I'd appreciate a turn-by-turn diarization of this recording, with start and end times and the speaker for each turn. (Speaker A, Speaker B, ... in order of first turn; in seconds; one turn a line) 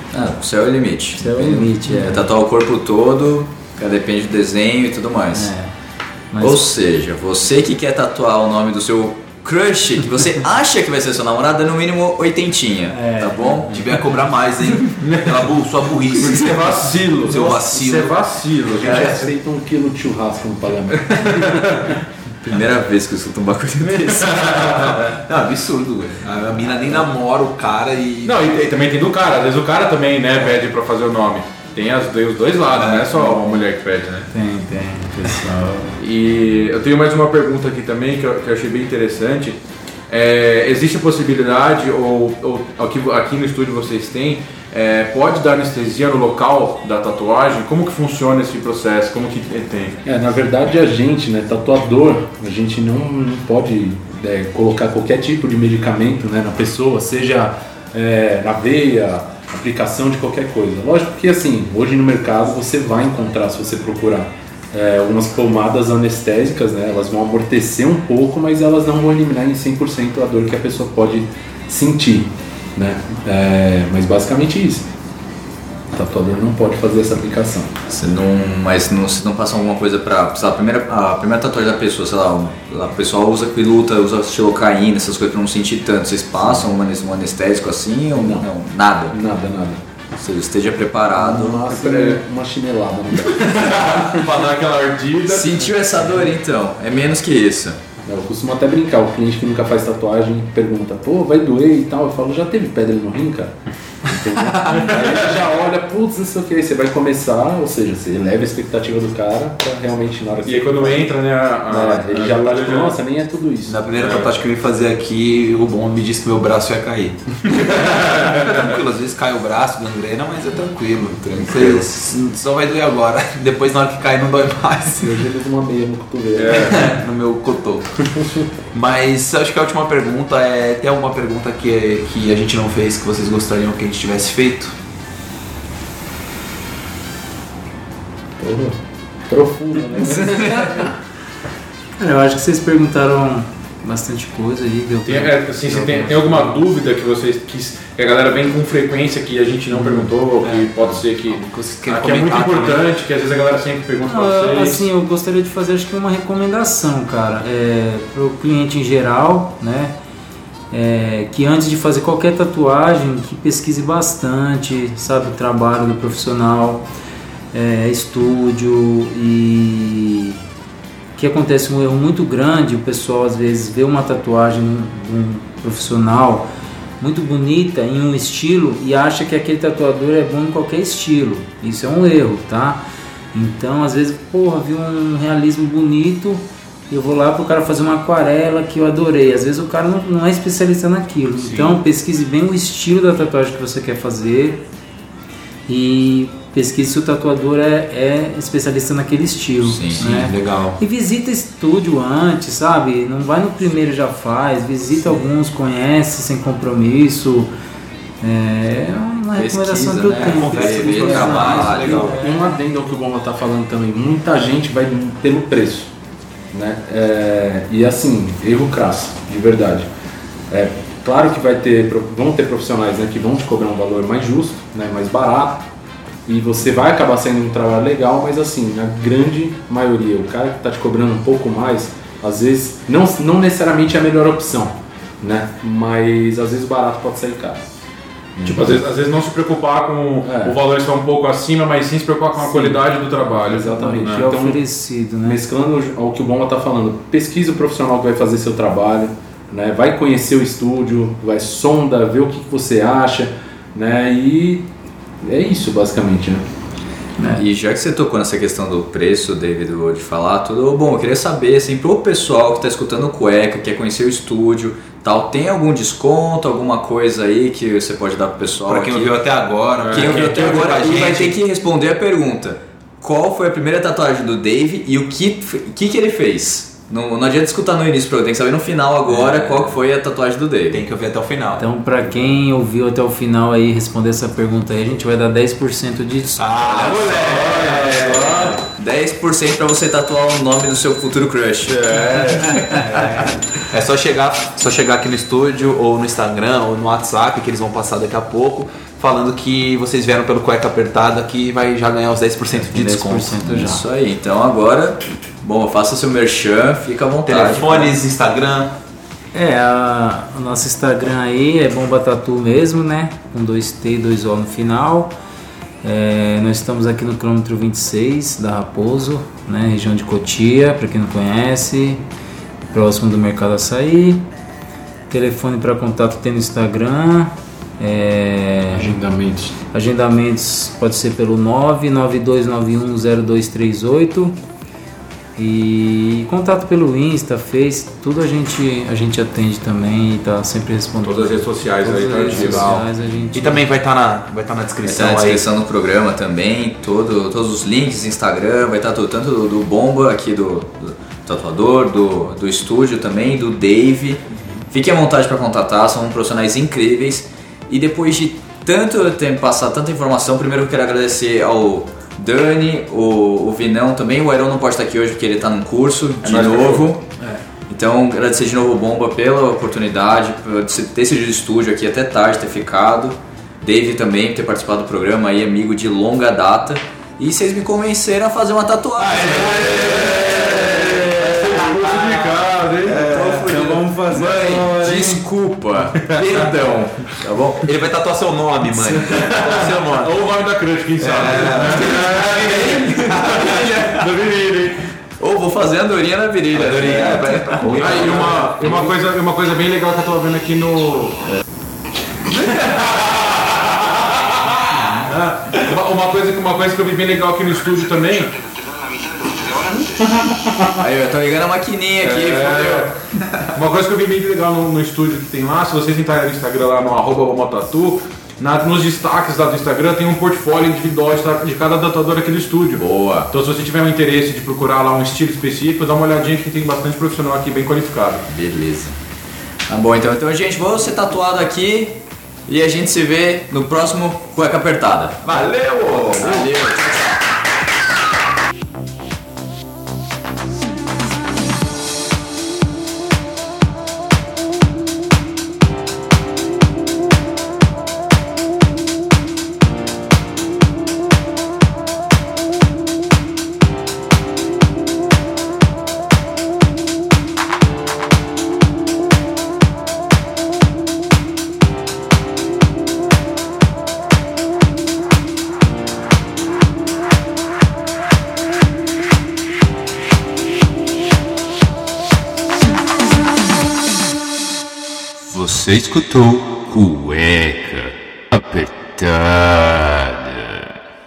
Speaker A: 0.1-5.5
Speaker B: 1.2-2.3
Speaker B: 5.3-5.7
Speaker B: 6.3-6.7
Speaker A: 6.4-13.9
Speaker B: 12.9-13.7
Speaker C: 13.7-18.2
Speaker D: 14.8-15.3
Speaker D: 16.1-19.3
Speaker A: 17.3-17.6
Speaker E: 18.7-21.9
Speaker D: 21.1-21.9
Speaker A: 22.4-24.6
Speaker D: 23.8-25.0
Speaker C: 24.8-28.4
Speaker D: 28.2-34.3
Speaker C: 32.7-33.4
Speaker B: 34.3-36.0
Speaker D: 36.0-50.0
Speaker E: 50.0-74.9
Speaker E: 75.9-77.7
Speaker A: 77.9-89.2
Speaker E: 88.1-88.5
Speaker E: 89.1-89.8
Speaker A: 90.1-91.7
Speaker E: 91.2-94.2
Speaker D: 91.7-92.2
Speaker D: 93.4-95.7
Speaker A: 95.3-97.8
Speaker E: 98.1-111.1
Speaker D: 104.7-105.3
Speaker D: 110.4-113.0
Speaker E: 111.7-113.9
Speaker C: 113.7-125.2
Speaker D: 117.6-118.6
Speaker A: 121.4-121.8
Speaker E: 125.0-126.8
Speaker D: 126.3-127.0
Speaker C: 126.5-127.9
Speaker E: 128.1-128.5
Speaker C: 128.7-134.8
Speaker E: 138.4-140.9
Speaker A: 140.2-140.8
Speaker B: 142.0-146.6
Speaker D: 145.1-154.9
Speaker E: 149.7-150.0
Speaker C: 150.4-152.8
Speaker B: 154.0-159.9
Speaker B: 160.7-166.9
Speaker B: 167.5-170.4
Speaker B: 171.2-176.5
Speaker B: 177.0-194.6
Speaker C: 191.4-191.8
Speaker B: 195.7-207.5
Speaker A: 199.6-200.2
Speaker C: 200.0-200.8
Speaker B: 208.2-212.6
Speaker A: 209.3-212.1
Speaker C: 210.1-212.2
Speaker E: 211.4-215.9
Speaker E: 216.5-219.9
Speaker E: 220.5-225.7
Speaker E: 226.3-237.7
Speaker E: 238.4-238.8
Speaker D: 238.5-244.3
Speaker E: 240.2-240.6
Speaker E: 242.4-244.6
Speaker B: 243.8-245.4
Speaker E: 245.2-254.7
Speaker E: 255.2-256.4
Speaker B: 257.2-257.4
Speaker A: 257.4-269.1
Speaker C: 268.7-271.4
Speaker D: 269.8-270.9
Speaker A: 269.9-280.8
Speaker C: 279.1-279.7
Speaker C: 280.7-281.7
Speaker B: 281.6-286.5
Speaker C: 286.4-288.6
Speaker D: 286.7-288.6
Speaker A: 288.8-293.0
Speaker D: 291.7-292.5
Speaker B: 292.9-293.3
Speaker C: 293.7-303.4
Speaker B: 302.6-303.8
Speaker A: 303.4-308.0
Speaker C: 307.3-308.8
Speaker B: 309.3-315.1
Speaker B: 315.8-322.0
Speaker B: 322.7-324.2
Speaker B: 325.1-329.0
Speaker E: 328.7-329.6
Speaker B: 329.7-334.4
Speaker B: 335.4-343.6
Speaker D: 341.0-342.9
Speaker C: 343.3-345.4
Speaker A: 344.8-367.0
Speaker D: 366.3-366.8
Speaker A: 367.7-382.4
Speaker C: 379.1-380.7
Speaker D: 379.6-383.1
Speaker C: 382.9-383.5
Speaker A: 382.9-387.6
Speaker B: 383.4-385.2
Speaker C: 387.6-390.0
Speaker D: 389.1-394.9
Speaker C: 391.0-393.4
Speaker A: 391.7-393.9
Speaker A: 395.2-398.2
Speaker C: 396.5-398.9
Speaker D: 397.8-401.2
Speaker D: 402.4-408.4
Speaker A: 410.8-412.9
Speaker D: 412.0-412.9
Speaker D: 413.5-428.3
Speaker A: 422.8-423.3
Speaker A: 428.3-429.0
Speaker A: 429.7-437.1
Speaker C: 435.3-436.5
Speaker A: 475.3-480.7